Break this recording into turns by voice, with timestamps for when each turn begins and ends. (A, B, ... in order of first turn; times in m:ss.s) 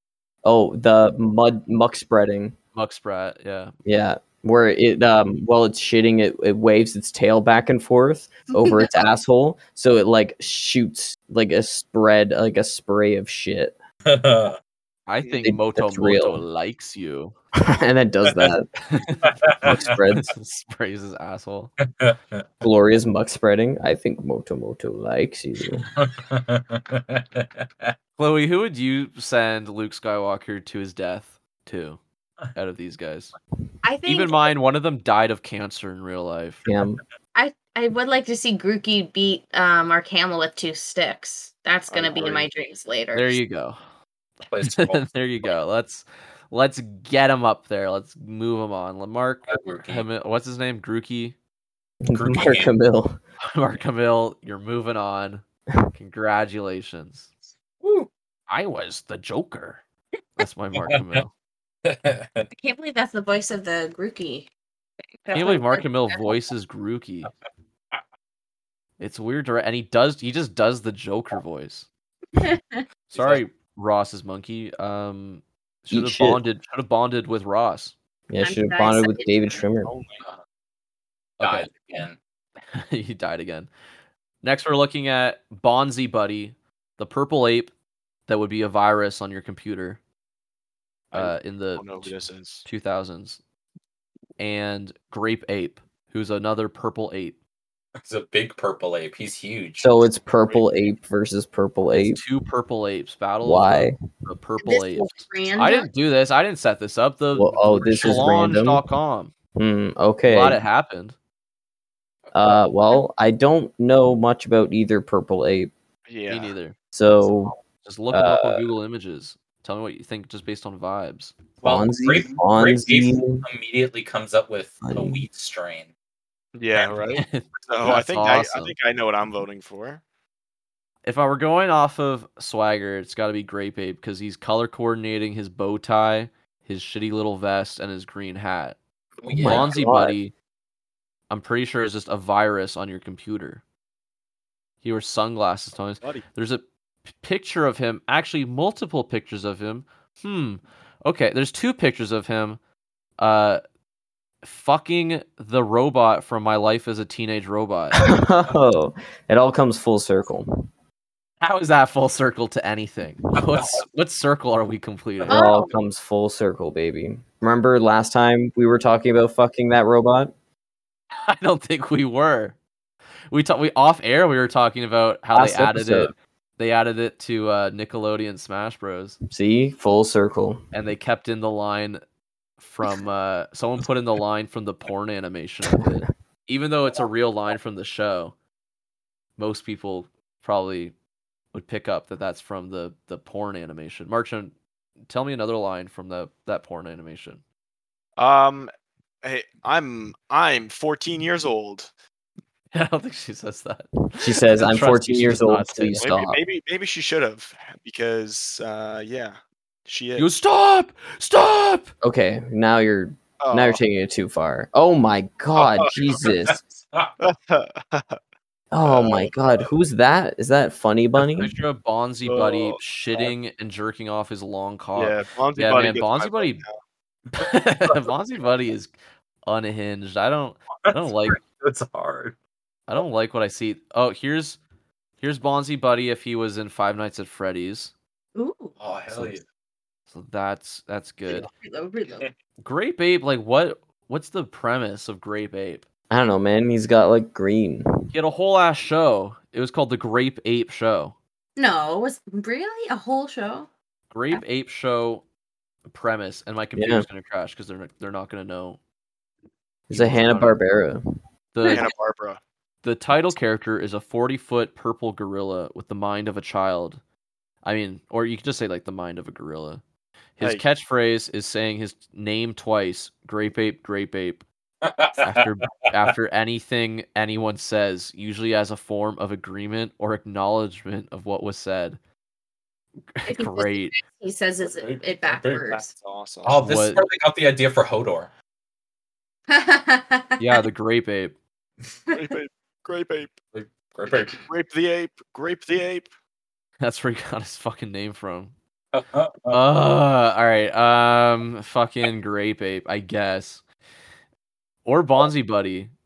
0:00.4-0:02.5 A
0:02.7-0:03.7 B
0:03.8-0:13.8 A
0:14.0-0:14.6 C
0:15.1-0:17.3 B
0:15.3-0:16.4 A
0:17.6-0:18.7 A
0:18.8-0:19.4 B
0:19.3-0:19.7 C
0:19.5-0:20.3 A
0:20.1-0:21.7 B
0:21.8-0:22.5 C
0:22.6-0:25.9 A
0:25.9-0:27.9 C
0:28.2-0:32.0 B
0:32.5-0:33.3 B
0:33.8-0:34.5 D
0:34.0-0:36.6 B
0:36.6-0:37.0 A
0:37.3-0:43.4 D
0:41.9-0:42.5 E
0:43.1-0:43.8 B
0:44.5-0:45.5 C
0:44.6-0:51.4 B
0:49.4-0:50.1 C
0:52.0-0:53.2 A
0:52.1-0:52.7 C
0:53.4-0:57.3 B
0:57.8-0:58.1 C
0:58.5-0:59.8 B
1:00.4-1:01.3 B
1:00.7-1:01.2 C
1:01.8-1:02.5 C
1:02.5-1:04.5 D
1:05.1-1:06.3 D
1:05.3-1:07.3 B
1:09.0-1:11.9 B
1:12.4-1:12.8 D
1:13.1-1:13.4 C
1:13.1-1:17.9 B
1:15.9-1:16.4 A
1:18.3-1:19.9 A
1:18.4-1:19.6 D
1:19.8-1:20.2 E
1:21.4-1:21.7 B
1:21.4-1:22.2 C
1:22.6-1:23.7 B
1:24.4-1:27.7 B
1:28.3-1:30.0 B
1:31.1-1:32.7 E
1:31.1-1:33.4 B
1:34.4-1:37.4 B
1:38.0-1:40.0 C
1:39.8-1:42.2 A
1:40.3-1:40.9 E
1:41.9-1:49.3 B
1:43.4-1:44.0 A
1:44.6-1:45.9 D
1:47.3-1:48.8 A
1:49.6-1:50.6 A
1:50.2-1:51.2 B
1:52.3-1:55.7 A
1:56.1-1:56.5 E
1:56.3-1:57.2 B
1:56.9-1:57.5 A
1:57.8-2:01.3 B
1:58.1-1:58.6 A
2:01.6-2:03.4 A
2:01.6-2:05.9 C
2:04.8-2:05.2 A
2:06.5-2:10.0 E
2:07.1-2:08.8 B
2:11.0-2:18.8 B
2:19.2-2:19.8 C
2:19.3-2:20.2 A
2:19.4-2:20.3 B
2:21.3-2:23.6 B
2:24.8-2:32.6 B
2:26.0-2:26.2 E
2:33.2-2:33.6 B
2:34.4-2:38.0 B
2:38.0-2:40.5 A
2:41.4-2:45.4 B
2:45.2-2:50.3 A
2:45.3-2:45.7 D
2:51.2-2:52.6 B
2:53.3-2:59.2 B
2:55.3-2:56.1 A
2:59.3-3:00.6 A
3:00.7-3:02.0 B
3:02.6-3:08.3 B
3:05.7-3:06.0 A
3:09.4-3:10.9 B
3:11.5-3:17.4 B
3:18.2-3:18.7 E
3:19.2-3:21.9 E
3:22.7-3:26.1 B
3:24.2-3:26.4 A
3:26.0-3:30.3 E
3:30.2-3:31.9 B
3:32.0-3:36.6 A
3:33.4-3:33.8 E
3:35.6-3:36.1 E
3:36.1-3:37.1 C
3:37.2-3:38.2 E
3:38.7-3:41.5 A
3:38.8-3:39.4 E
3:41.2-3:46.6 B
3:42.2-3:43.3 E
3:44.9-3:46.8 E
3:47.3-3:47.9 C
3:47.4-3:51.4 B
3:50.8-3:52.4 C
3:52.9-3:54.6 B
3:55.2-3:57.9 B
3:58.3-3:58.7 D
3:58.8-3:59.4 C
3:59.1-3:59.4 B
4:00.1-4:01.5 B
4:01.3-4:02.2 D
4:02.6-4:05.8 B
4:06.1-4:08.1 A
4:08.1-4:11.2 B
4:11.6-4:13.7 D
4:14.1-4:15.2 B
4:15.8-4:18.8 B
4:16.7-4:17.0 A
4:19.9-4:21.0 A
4:19.9-4:20.6 B
4:21.5-4:21.9 B
4:21.6-4:22.4 E
4:21.7-4:21.9 D
4:22.8-4:27.0 B
4:27.6-4:29.8 B
4:30.4-4:34.4 B
4:30.4-4:30.6 E
4:34.8-4:35.4 C
4:35.2-4:42.0 B
4:43.1-4:43.9 B
4:43.3-4:45.9 D
4:44.6-4:45.8 C
4:45.9-4:46.6 E
4:46.4-4:48.3 C
4:46.6-4:47.0 B
4:49.5-4:50.6 D
4:50.4-4:51.4 B
4:52.1-4:52.4 D
4:52.1-4:53.4 E
4:53.5-4:54.4 C
4:54.1-4:56.1 E
4:56.8-4:58.5 B
4:58.9-4:59.6 C
4:59.5-5:03.6 B
5:04.8-5:05.9 B